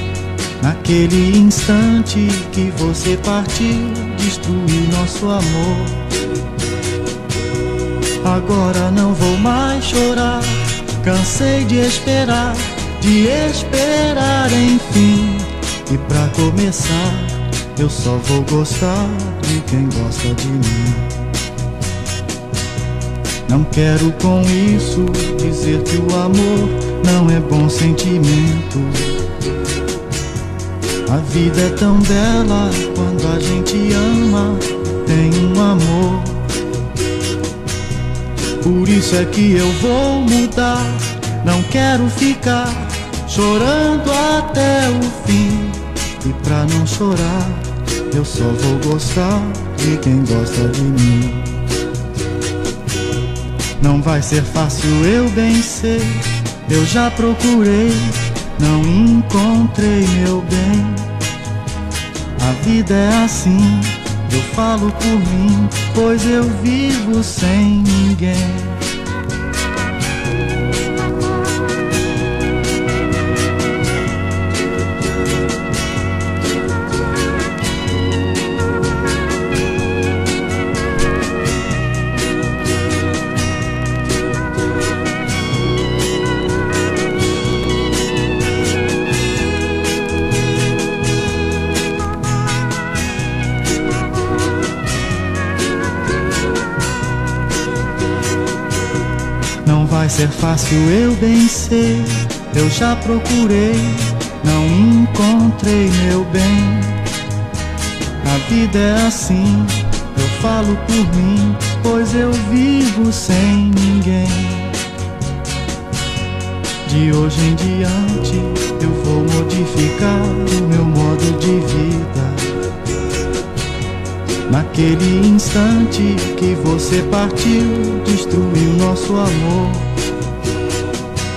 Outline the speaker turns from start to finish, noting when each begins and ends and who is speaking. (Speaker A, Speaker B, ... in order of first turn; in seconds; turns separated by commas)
Speaker A: 0.6-6.1, Speaker A: 8.2-21.2, Speaker A: 23.5-29.2, Speaker A: 31.1-36.6, Speaker A: 38.6-51.7, Speaker A: 53.8-61.2, Speaker A: 62.4-68.9, Speaker A: 99.6-107.1, Speaker A: 108.2-114.8, Speaker A: 116.8-122.5, Speaker A: 124.5-130.0